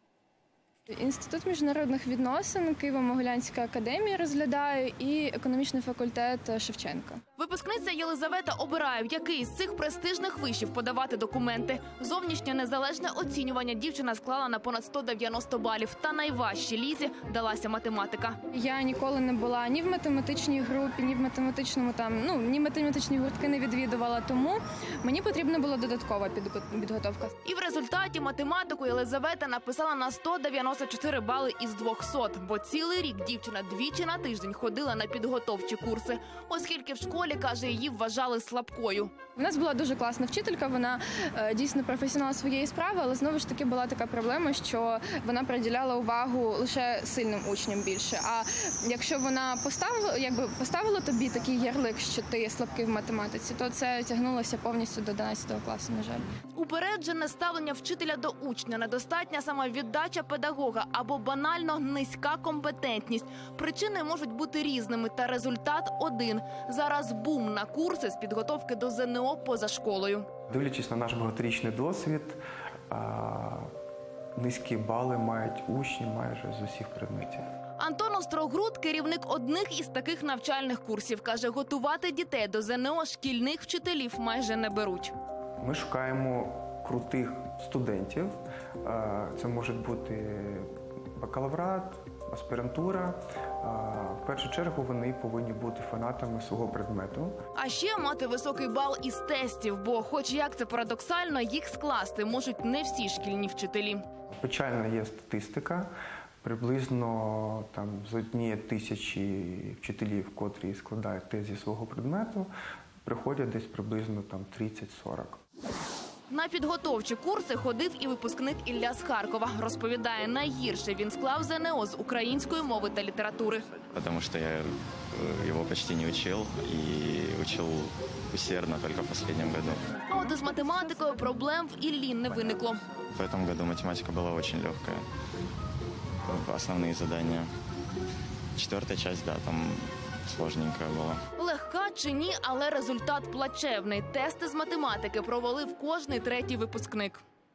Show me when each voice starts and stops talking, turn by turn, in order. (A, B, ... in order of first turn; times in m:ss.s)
0:00.9-0:07.2 A
0:07.4-0:18.4 B
0:18.5-0:27.3 A
0:27.4-0:39.2 B
0:39.4-0:56.3 A
0:56.5-1:10.3 B
1:10.5-1:13.7 C
1:14.4-1:17.5 C
1:17.8-1:25.1 B
1:25.6-1:37.4 C
1:37.5-1:44.0 B
1:44.3-1:45.9 C
1:46.4-1:52.5 C
1:53.0-1:55.4 C
1:56.3-2:03.6 B
2:03.9-2:09.8 D
2:10.1-2:12.8 B
2:13.1-2:15.0 D
2:16.2-2:17.5 D
2:18.6-2:21.2 D
2:21.4-2:27.2 B